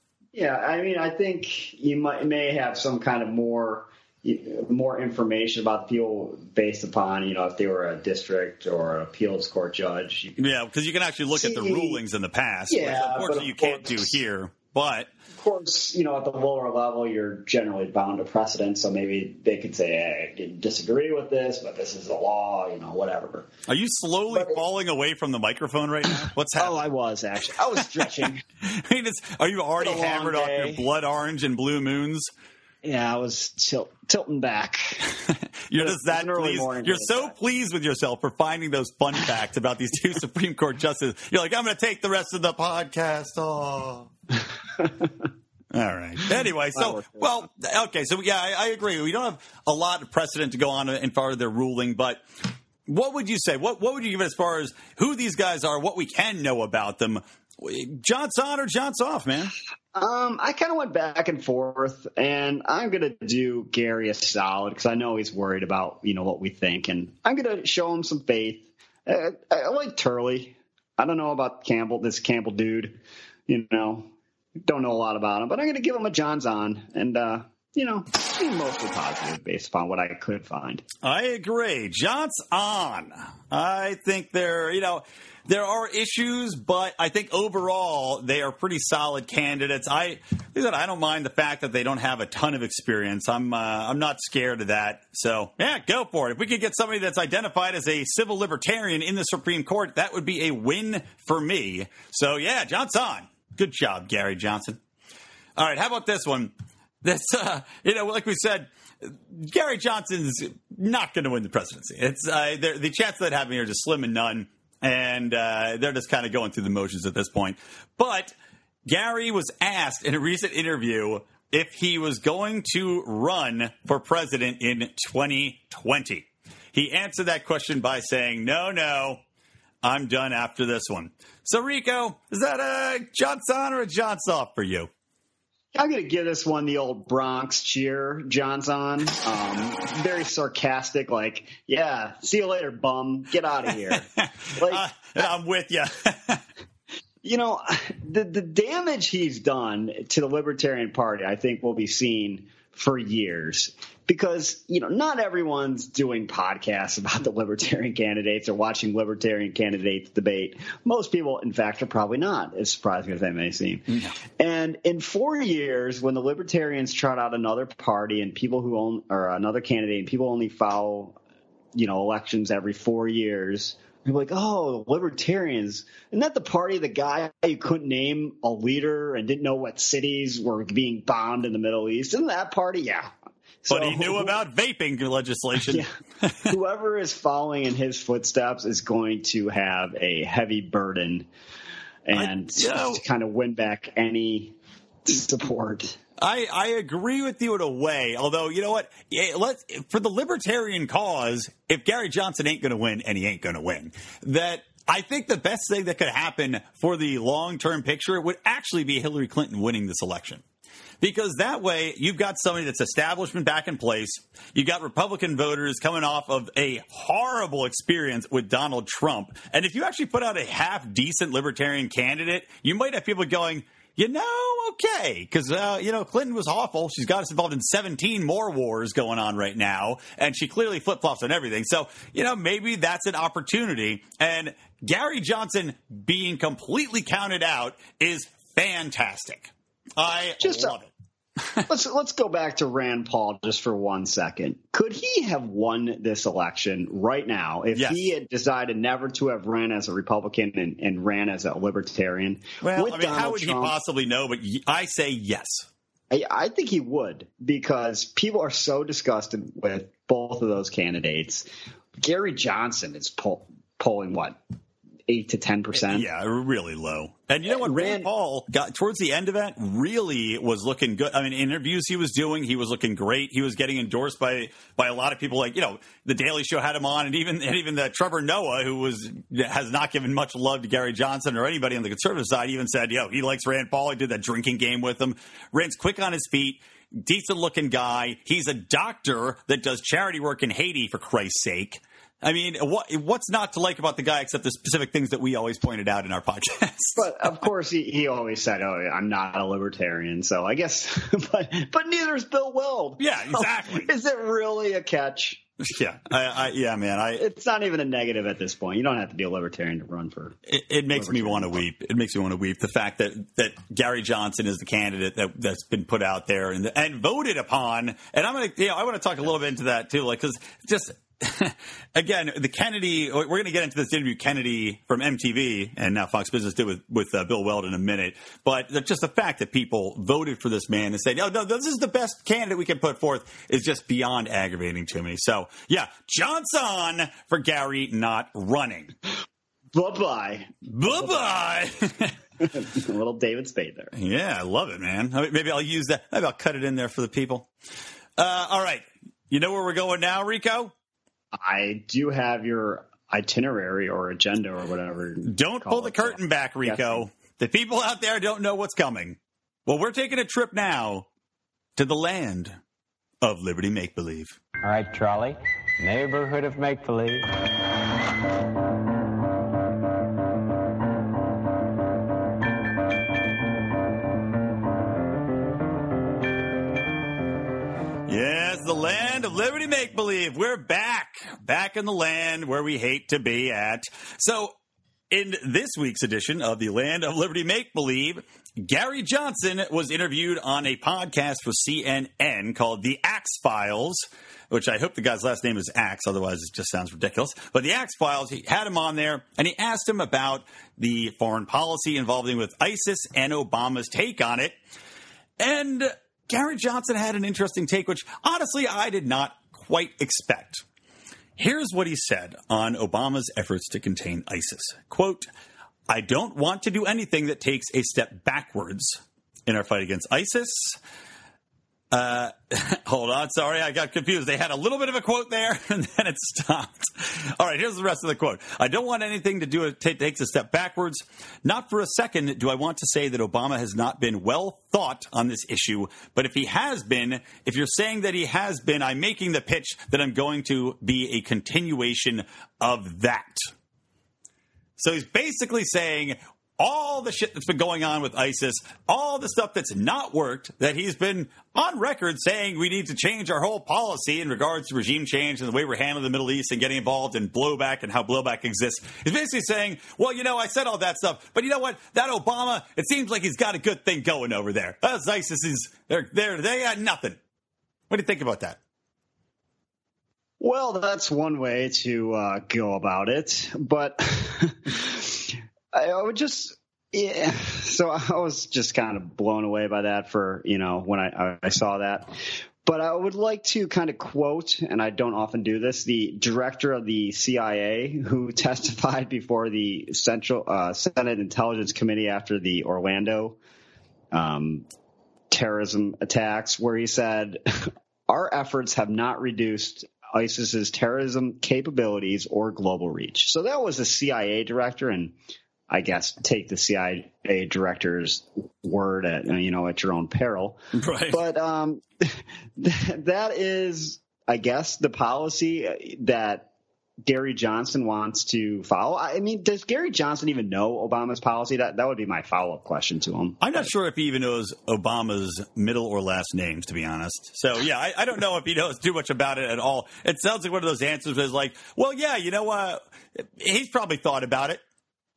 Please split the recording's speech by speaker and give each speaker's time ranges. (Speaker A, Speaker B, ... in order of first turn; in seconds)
Speaker A: 0.3-10.4, 11.3-12.0, 12.7-14.2, 15.3-23.5, 24.3-24.6, 26.6-28.4, 29.8-30.9, 32.8-35.1, 35.8-37.4, 44.8-45.1, 46.8-47.3, 60.0-80.8, 135.7-144.9, 147.2-171.2, 171.7-183.1, 183.6-184.4, 186.5-191.3, 192.1-196.0, 240.4-240.8, 241.7-253.8, 256.1-261.5, 262.0-264.4, 265.1-266.1, 267.5-268.1, 297.0-305.4, 307.2-310.4, 310.9-311.6, 339.7-341.3, 342.4-343.9, 351.3-357.1, 470.4-493.4, 494.1-494.7, 495.3-505.1, 505.7-510.6, 511.1-516.5, 517.0-523.7
Speaker B: 10.4-15.1, 23.7-26.8, 28.6-32.3, 35.2-44.1, 45.7-52.3, 52.9-59.5, 81.0-104.8, 105.6-118.3, 118.9-129.2, 129.8-134.9, 144.2-146.4, 163.9-164.2, 183.7-186.5, 192.1-193.0, 196.2-210.4, 211.0-240.9, 247.7-248.1, 252.6-255.7, 265.8-297.4, 303.0-303.9, 305.6-307.2, 310.5-338.9, 340.6-342.1, 343.9-347.5, 348.2-350.7, 355.2-361.1, 361.8-362.6, 363.2-364.4, 378.1-384.6, 385.1-404.6, 405.4-410.6, 411.4-415.3, 415.9-420.8, 421.9-443.5, 444.8-467.2, 467.9-468.6, 510.7-511.2, 523.4-534.6
Speaker C: 364.6-367.3